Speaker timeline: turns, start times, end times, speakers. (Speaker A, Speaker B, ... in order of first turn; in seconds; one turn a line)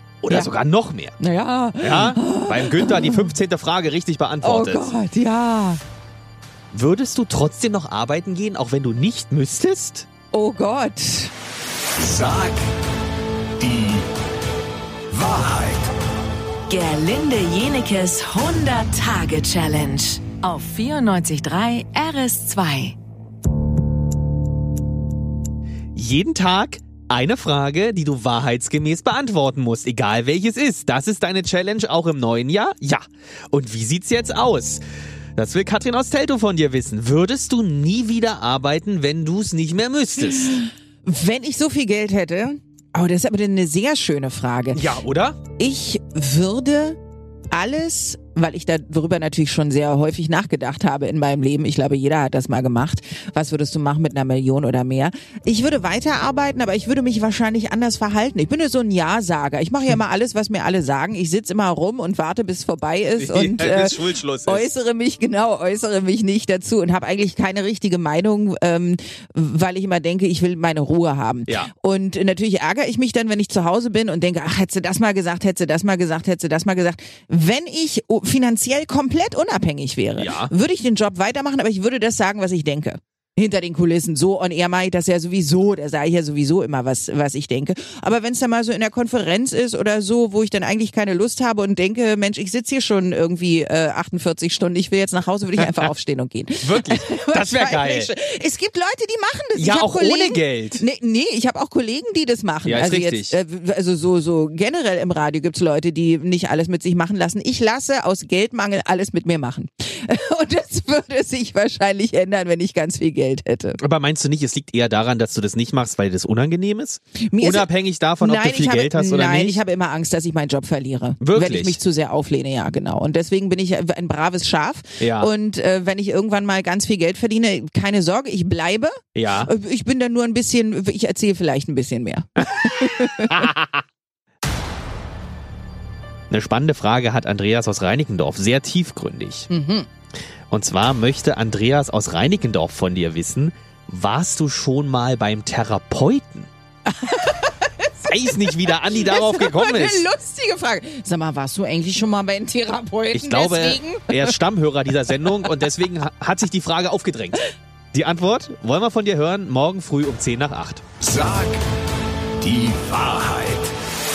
Speaker A: 0.2-1.1
Speaker B: 0.3-0.5
Speaker B: 1.2-3.3
Speaker A: 1.8-4.9
Speaker B: 4.4-5.8
Speaker A: 6.7-10.1
Speaker B: 10.3-11.3
Speaker C: 12.0-12.7
Speaker C: 13.6-14.0
Speaker C: 15.1-15.9
Speaker D: 16.7-23.0
Speaker A: 25.9-34.8
Speaker A: 35.4-40.6
Speaker B: 41.0-44.8
Speaker A: 44.7-45.4
Speaker B: 45.6-47.0
Speaker B: 47.5-113.8
Speaker A: 63.2-64.7
Speaker A: 80.2-80.5
Speaker A: 96.6-98.1
Speaker A: 99.5-100.8
Speaker A: 102.6-103.3
Speaker A: 113.8-119.6
Speaker B: 117.3-128.9
Speaker A: 121.2-121.8
Speaker A: 125.0-125.3
Speaker A: 129.1-129.5
Speaker B: 129.4-133.5
Speaker A: 132.6-133.8
Speaker A: 136.3-139.5
Speaker B: 139.5-139.9
Speaker A: 140.5-146.5
Speaker B: 146.9-154.3
Speaker A: 148.1-150.1
Speaker A: 153.1-160.8
Speaker C: 161.0-161.6
Speaker C: 162.4-163.7